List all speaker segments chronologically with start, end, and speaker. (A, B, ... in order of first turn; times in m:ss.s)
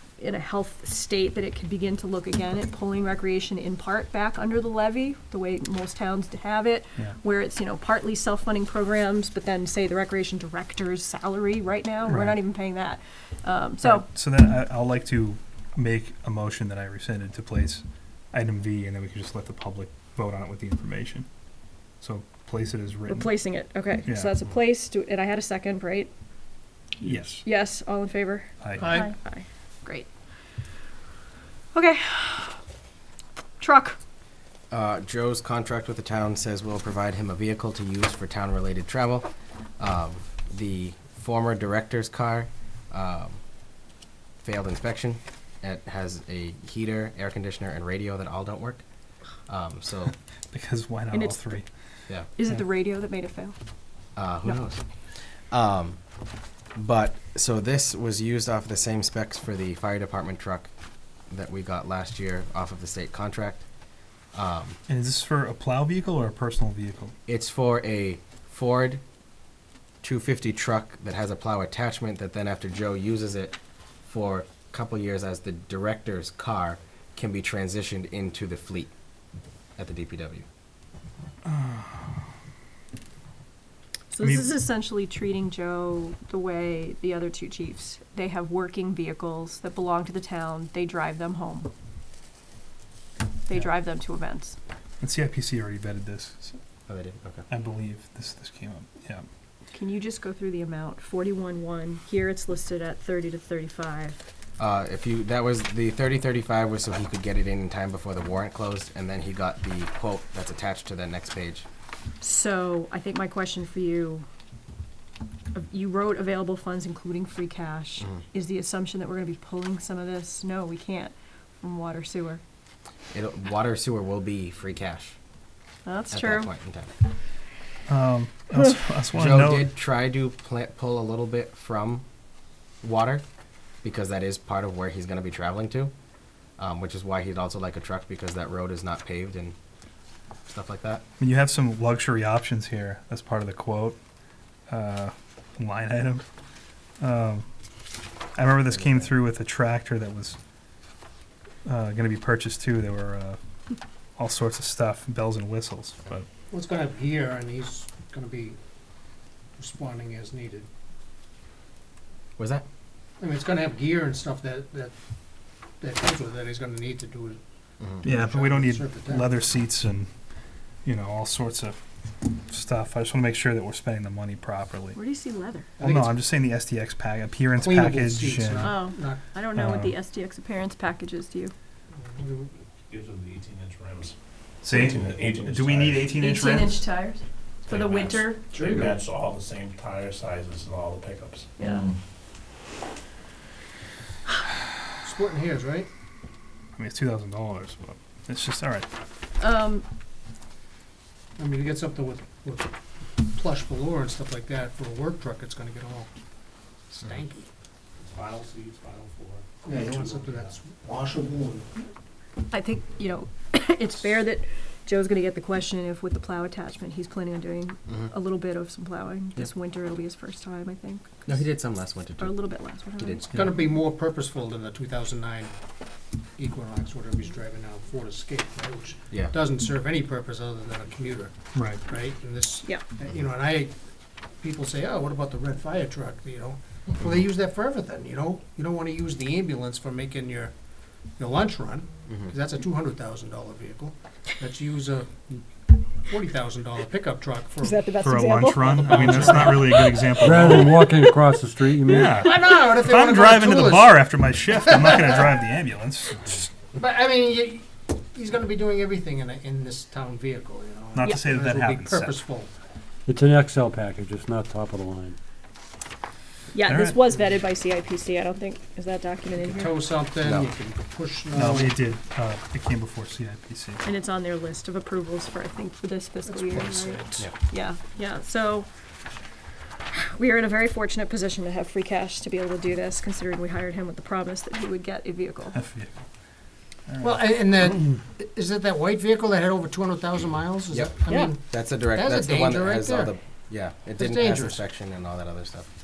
0:00.2-0:14.1 A
0:12.1-0:12.4 B
0:13.8-0:21.3 B
0:22.0-0:23.3 B
0:23.1-0:26.1 A
0:24.1-0:24.4 B
0:27.0-0:27.4 C
0:27.0-0:27.4 B
0:27.4-0:30.1 A
0:28.6-0:28.9 B
0:28.8-0:29.1 D
0:31.7-0:32.6 A
0:33.6-0:34.0 A
0:34.7-0:39.3 E
0:39.8-0:43.4 E
0:44.4-0:48.8 E
0:49.5-0:50.2 E
0:50.5-0:51.7 B
0:51.1-0:51.6 A
0:52.4-0:53.6 A
0:54.2-0:56.0 E
0:56.8-1:00.7 E
1:01.3-1:03.7 E
1:04.3-1:04.8 E
1:04.9-1:07.1 B
1:07.3-1:09.0 E
1:10.0-1:18.9 E
1:19.8-1:20.5 E
1:21.5-1:22.0 B
1:24.1-1:31.7 A
1:24.2-1:24.5 B
1:33.5-1:34.6 A
1:35.0-1:36.6 B
1:36.9-1:37.4 E
1:37.5-1:39.3 B
1:39.7-1:44.2 A
1:44.6-1:51.7 E
1:52.2-1:54.3 A
1:55.5-2:02.4 A
2:03.1-2:05.2 E
2:05.9-2:06.5 A
2:06.1-2:06.9 E
2:07.9-2:09.7 B
2:09.1-2:12.0 E
2:12.8-2:13.2 E
2:13.8-2:15.9 E
2:16.6-2:19.6 E
2:20.5-2:21.0 E
2:21.2-2:24.0 B
2:24.7-2:26.2 B
2:27.0-2:27.4 B
2:28.4-2:30.4 B
2:28.7-2:29.1 E
2:31.6-2:33.4 B
2:34.2-2:36.3 B
2:36.5-2:38.6 D
2:39.6-2:40.7 D
2:42.4-2:42.6 E
2:43.2-2:44.9 D
2:45.8-2:47.4 D
2:48.0-2:50.1 B
2:48.0-2:49.3 D
2:50.8-2:51.8 B
2:52.5-2:55.0 B
2:55.0-2:55.7 A
2:55.8-2:56.2 D
2:55.8-2:58.7 B
2:57.6-2:59.2 D
2:58.6-3:01.5 A
2:59.5-3:00.0 B
3:02.0-3:02.5 D
3:02.8-3:06.2 C
3:04.6-3:06.8 B
3:06.2-3:08.4 A
3:07.7-3:12.0 C
3:08.4-3:09.0 D
3:11.6-3:11.9 A
3:15.0-3:15.9 D
3:16.8-3:18.9 B
3:19.4-3:19.8 A
3:21.4-3:22.7 D
3:23.3-3:26.1 D
3:26.9-3:27.5 D
3:28.0-3:30.6 C
3:29.6-3:31.9 D
3:32.5-3:41.5 A
3:41.3-3:42.4 E
3:42.2-3:43.2 A
3:43.0-3:43.2 E
3:43.3-3:45.5 D
3:46.4-3:53.8 D
3:51.5-3:51.8 B
3:54.4-4:00.5 D
4:01.2-4:05.4 D
4:02.1-4:02.3 E
4:06.1-4:07.9 D
4:07.6-4:10.0 A
4:08.0-4:10.8 B
4:08.5-4:10.4 D
4:10.2-4:12.2 F
4:11.9-4:16.4 B
4:12.0-4:14.1 D
4:14.8-4:15.2 D
4:16.7-4:22.5 D
4:20.9-4:22.2 B
4:23.1-4:25.2 F
4:26.5-4:29.8 A
4:26.6-4:27.0 B
4:29.4-4:31.8 D
4:30.2-4:30.5 E
4:31.3-4:33.8 B
4:33.8-4:38.7 A
4:36.7-4:37.3 C
4:39.9-4:45.6 A
4:45.5-4:46.0 B
4:46.9-4:47.2 B
4:47.0-4:53.2 D
4:50.7-4:55.7 E
4:51.1-4:51.3 A
4:54.0-4:54.6 D